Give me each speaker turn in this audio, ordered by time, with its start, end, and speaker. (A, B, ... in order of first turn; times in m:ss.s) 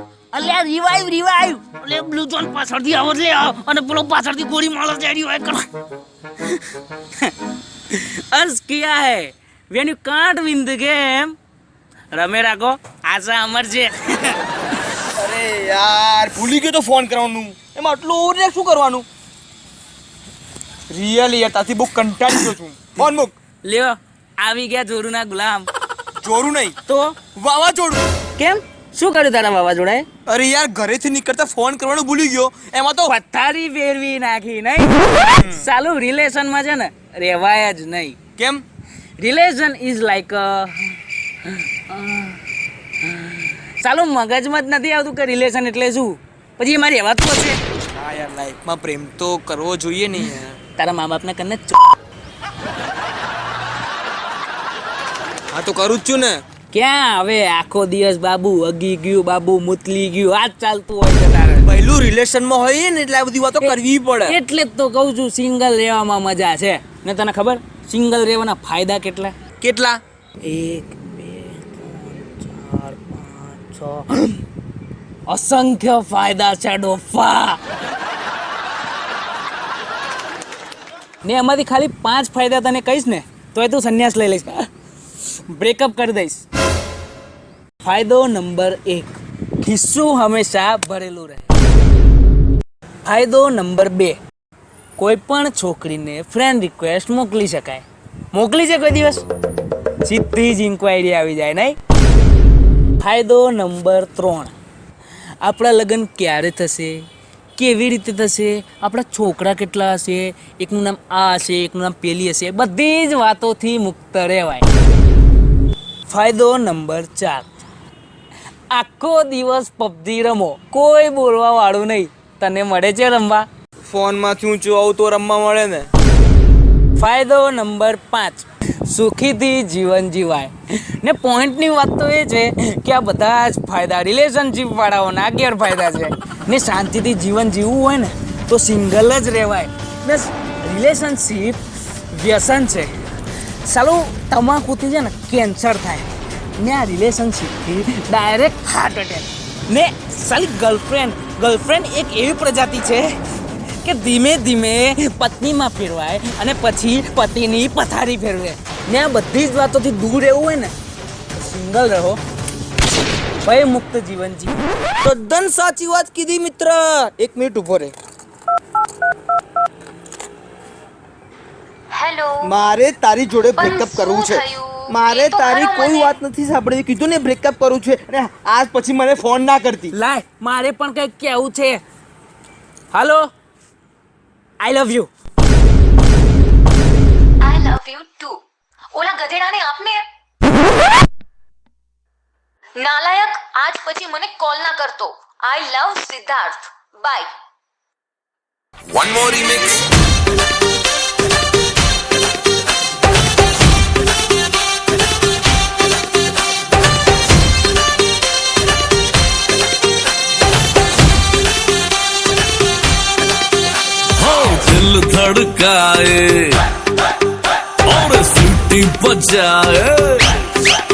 0:00.3-0:05.7 A
0:07.9-0:11.4 A
0:12.1-0:14.4 A
0:15.1-0:19.0 B
0:20.9-0:23.4 B
0:23.6-0:25.7 A
0:26.2-0:26.8 B
0:26.9-0:27.2 A
0:27.3-0:28.0 B
0:28.4-0:30.1 A
0:30.2-0:33.1 B
0:33.0-0:38.2 A
0:35.3-0:35.6 B
0:38.4-0:38.6 B
0:39.2-0:42.4 A
0:43.0-0:47.6 A
0:47.9-0:50.6 B
0:50.8-0:51.8 A
0:55.5-0:56.4 B
0:56.7-1:01.7 A
1:01.6-1:04.4 B
1:03.6-1:09.3 A
1:09.6-1:10.0 B
1:10.4-1:14.3 A
1:15.3-1:17.6 A
1:21.2-1:24.7 A
1:25.5-1:26.4 A
1:27.8-1:31.5 A
1:33.0-1:34.2 A
1:35.0-1:39.2 A
1:40.0-1:41.8 A
1:43.0-1:44.5 A
1:45.4-1:47.0 A
1:47.6-1:54.7 A
1:56.1-1:57.4 A
1:58.7-2:03.5 A
2:03.9-2:05.9 B
2:07.0-2:21.6 A
2:22.1-2:22.9 A
2:23.6-2:26.1 A
2:26.6-2:33.2 A
2:33.8-2:40.7 A
2:41.3-2:42.2 A
2:43.4-2:44.6 A
2:45.0-2:47.9 B
2:51.9-2:52.5 C
2:52.4-2:59.9 B
2:53.5-2:56.2 C
2:59.9-3:01.8 A
3:02.9-3:03.3 A
3:04.6-3:05.1 A
3:07.4-3:08.4 C
3:08.9-3:10.0 C
3:12.8-3:17.3 C
3:18.9-3:19.8 B
3:34.2-3:36.6 D
3:37.8-3:40.3 D